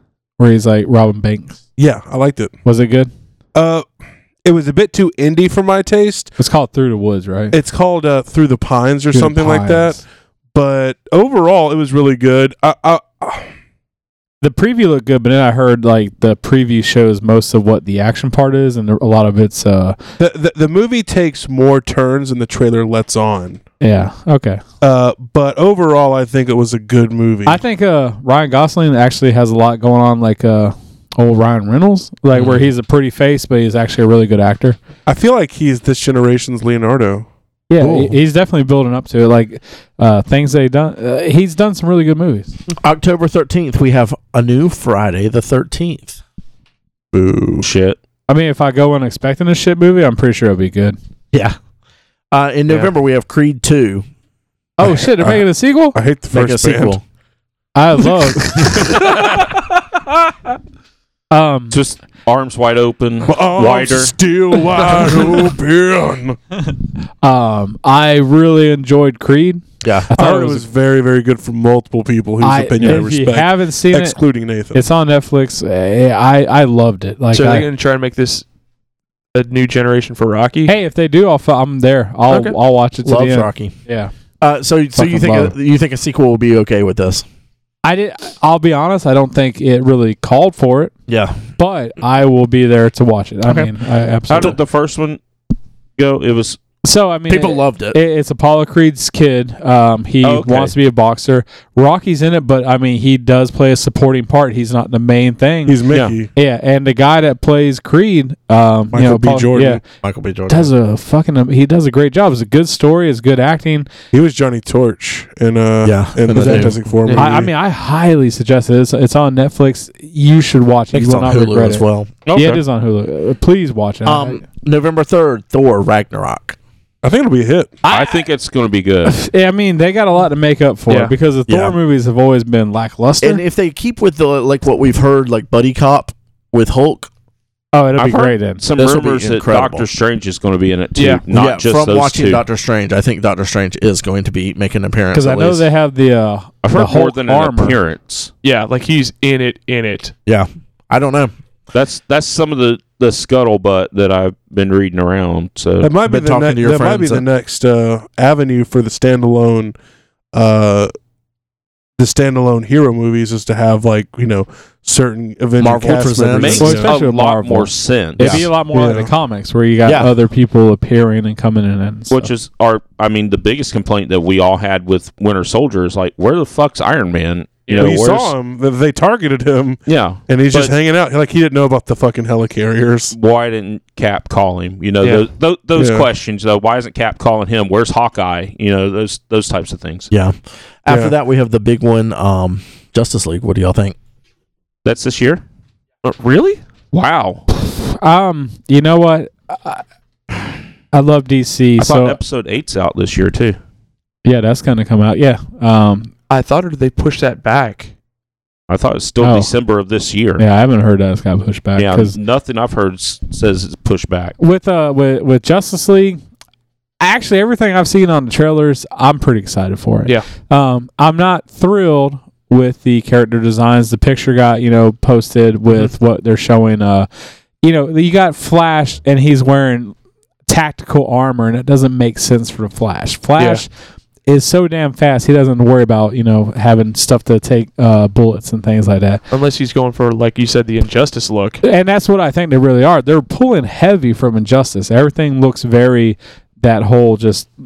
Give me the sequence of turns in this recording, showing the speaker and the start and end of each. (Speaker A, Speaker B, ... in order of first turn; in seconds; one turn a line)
Speaker A: 0.4-1.6
Speaker B: 1.8-2.5
Speaker A: 2.6-3.1
Speaker B: 3.5-3.9
Speaker B: 4.4-6.3
Speaker A: 6.4-7.5
Speaker B: 7.5-10.0
Speaker A: 9.1-10.0
Speaker B: 10.5-13.5
Speaker A: 14.4-20.0
Speaker B: 20.2-23.6
Speaker A: 23.8-24.6
Speaker B: 24.8-27.6
Speaker A: 27.4-34.8
Speaker B: 35.0-37.3
Speaker A: 37.7-42.5
Speaker C: 37.8-38.1
Speaker C: 42.8-46.2
Speaker B: 47.1-47.6
Speaker D: 47.6-48.0
Speaker A: 48.3-51.0
Speaker C: 52.3-54.0
Speaker A: 54.8-56.0
Speaker B: 54.8-57.0
Speaker C: 56.3-57.0
Speaker A: 57.7-58.7
Speaker B: 58.5-59.0
Speaker A: 61.3-61.8
Speaker D: 61.7-64.1
Speaker B: 63.2-66.4
Speaker A: 67.2-70.7
Speaker C: 69.8-70.1
Speaker B: 70.1-74.8
Speaker A: 72.4-74.2
Speaker A: 74.7-77.7
Speaker E: 77.3-78.4
Speaker E: 79.3-80.7
Speaker A: 80.7-84.1
Speaker E: 82.3-82.6
Speaker C: 83.0-83.7
Speaker C: 84.4-87.2
Speaker A: 84.9-85.5
Speaker A: 87.8-90.9
Speaker C: 91.1-91.4
Speaker A: 91.6-94.6
Speaker C: 93.5-93.7
Speaker D: 94.3-95.2
Speaker D: 96.0-96.6
Speaker A: 96.8-105.8
Speaker C: 97.3-98.0
Speaker D: 100.2-100.7
Speaker B: 105.7-106.3
Speaker A: 106.3-109.8
Speaker B: 108.9-109.8
Speaker C: 110.0-110.7
Speaker A: 110.5-113.9
Speaker B: 114.1-117.5
Speaker C: 115.8-116.8
Speaker A: 116.3-124.4
Speaker C: 120.9-122.2
Speaker E: 122.3-122.6
Speaker C: 124.0-126.6
Speaker B: 127.0-127.8
Speaker A: 127.8-128.3
Speaker D: 127.9-129.2
Speaker A: 129.0-133.4
Speaker C: 131.5-131.8
Speaker C: 133.2-137.1
Speaker A: 137.7-138.6
Speaker D: 138.0-142.4
Speaker C: 138.8-139.9
Speaker E: 140.9-141.2
Speaker C: 141.3-145.6
Speaker A: 145.1-147.8
Speaker D: 146.6-148.3
Speaker E: 148.4-150.1
Speaker C: 150.2-151.3
Speaker D: 151.7-155.9
Speaker B: 155.8-159.7
Speaker C: 156.0-157.2
Speaker B: 160.3-160.9
Speaker B: 162.0-166.9
Speaker C: 165.6-166.8
Speaker D: 166.3-168.5
Speaker A: 166.6-172.3
Speaker C: 168.2-168.5
Speaker B: 168.7-169.1
Speaker C: 169.8-170.1
Speaker D: 172.1-178.3
Speaker E: 177.7-178.0
Speaker B: 177.7-183.2
Speaker D: 179.8-180.8
Speaker D: 183.1-190.1
Speaker B: 185.7-186.1
Speaker C: 190.1-193.9
Speaker B: 190.9-191.1
Speaker D: 194.8-195.4
Speaker E: 196.0-196.6
Speaker D: 196.9-197.4
Speaker A: 197.5-199.8
Speaker A: 200.9-202.2
Speaker D: 201.8-203.6
Speaker A: 204.2-206.1
Speaker E: 206.3-207.9
Speaker D: 208.7-210.4
Speaker A: 209.2-209.5
Speaker A: 210.4-212.2
Speaker D: 211.8-214.3
Speaker A: 214.4-216.2
Speaker A: 217.0-227.1
Speaker A: 227.6-229.9
Speaker A: 230.5-233.7
Speaker E: 233.4-233.6
Speaker A: 234.2-239.2
Speaker E: 239.3-241.6
Speaker A: 241.6-247.5